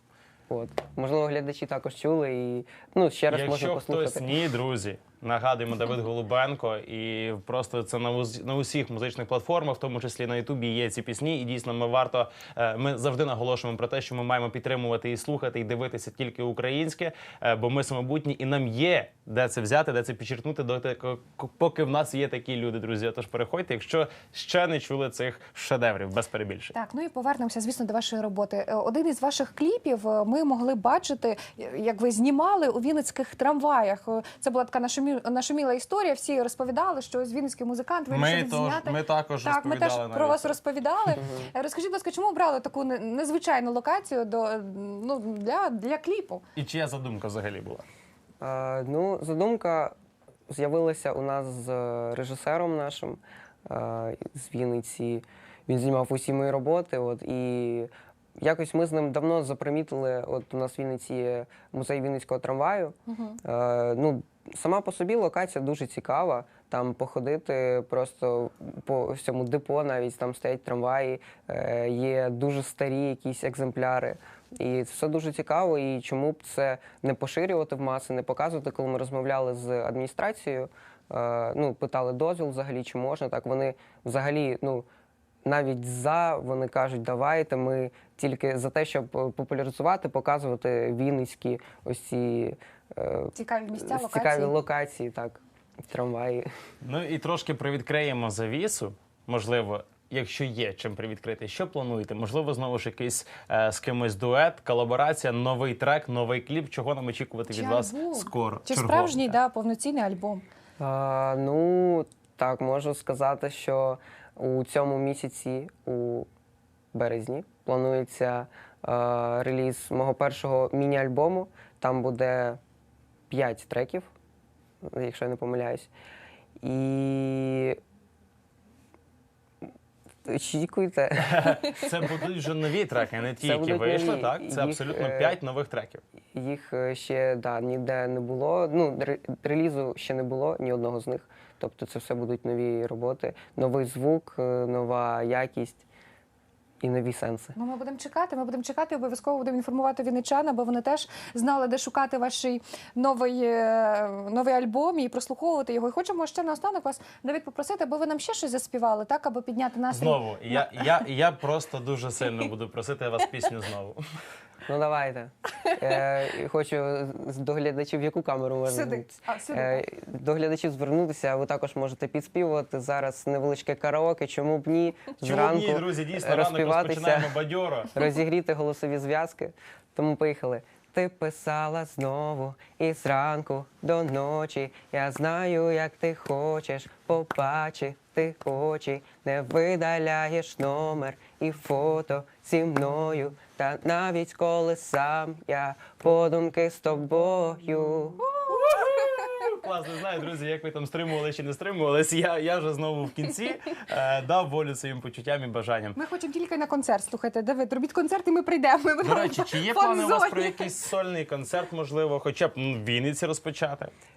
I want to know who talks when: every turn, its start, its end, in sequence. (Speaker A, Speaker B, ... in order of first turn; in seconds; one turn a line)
Speaker A: 0.5-4.3
Speaker B: 3.3-26.7
Speaker C: 26.7-46.4
Speaker B: 38.1-40.5
Speaker A: 41.1-41.5
Speaker B: 46.5-47.8
Speaker A: 48.4-49.9
Speaker A: 50.5-84.9
Speaker C: 63.1-63.4
Speaker A: 85.4-96.5
Speaker C: 93.3-94.5
Speaker B: 96.8-109.3
Speaker C: 107.5-110.4
Speaker A: 110.8-116.3
Speaker A: 116.9-122.6
Speaker A: 123.3-124.1
Speaker A: 124.8-125.9
Speaker A: 126.6-127.8
Speaker A: 130.2-132.0
Speaker B: 131.2-136.0
Speaker A: 133.4-135.4
Speaker A: 136.3-145.8
Speaker A: 146.8-147.5
Speaker C: 147.5-161.0
Speaker B: 159.9-164.0
Speaker A: 164.7-177.4
Speaker C: 168.7-169.8
Speaker B: 175.2-177.9
Speaker A: 177.9-198.2
Speaker C: 198.4-199.1
Speaker B: 198.5-206.0
Speaker C: 205.9-210.7
Speaker B: 209.0-213.9